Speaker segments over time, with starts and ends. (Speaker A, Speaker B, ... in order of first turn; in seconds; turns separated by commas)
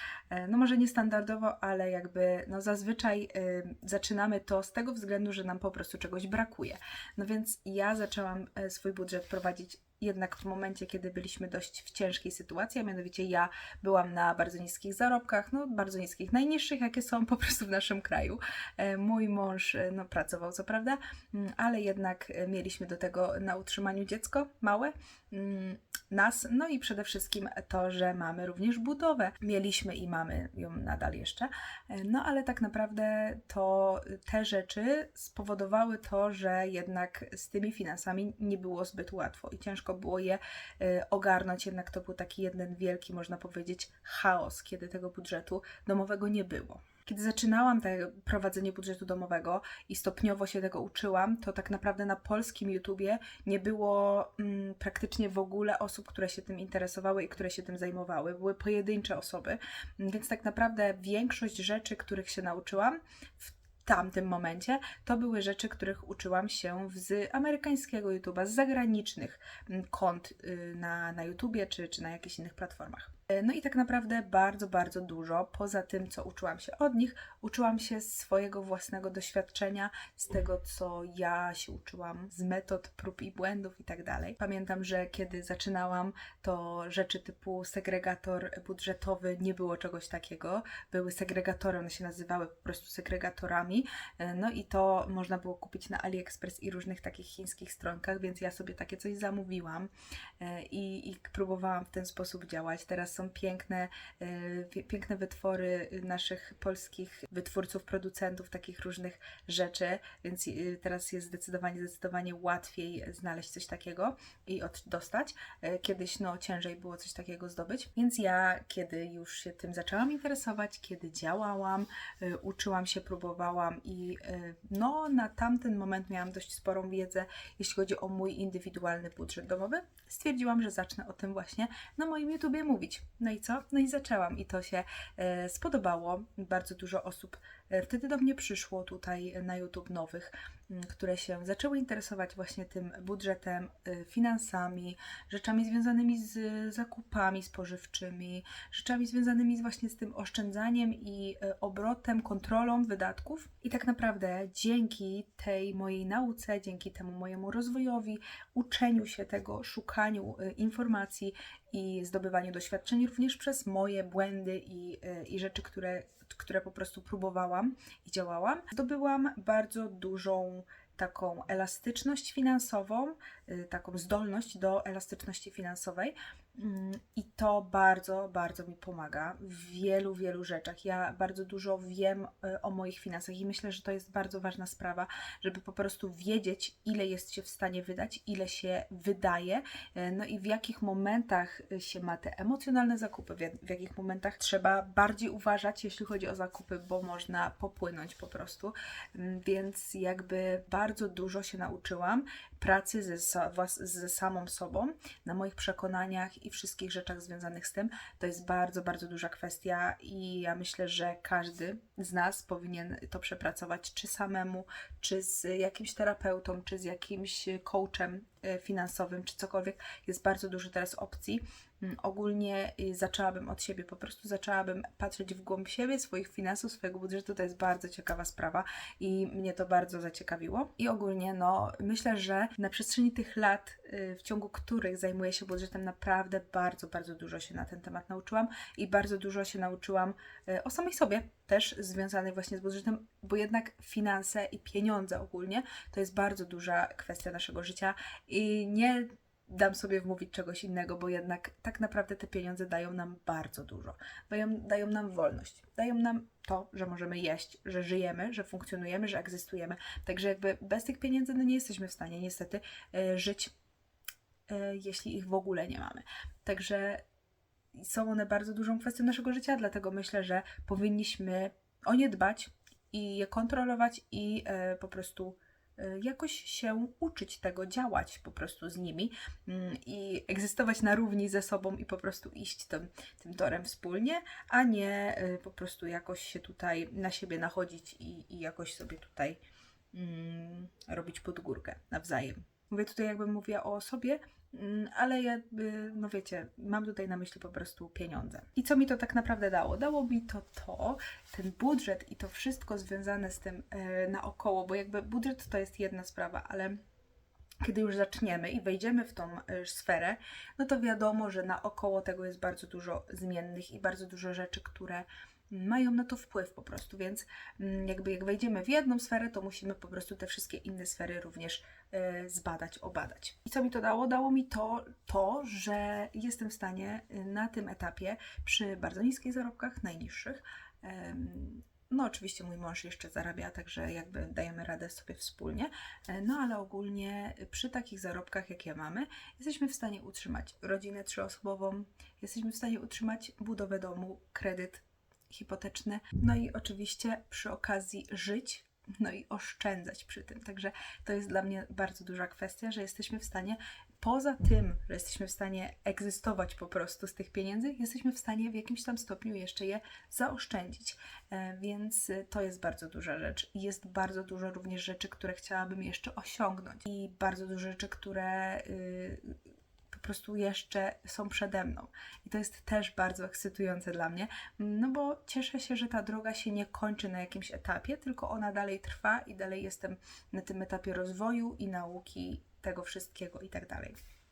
Speaker A: 0.3-263.5, Speaker A: 264.5-267.0, Speaker A: 267.7-289.4, Speaker A: 289.9-306.8, Speaker A: 307.6-369.3, Speaker A: 369.9-384.0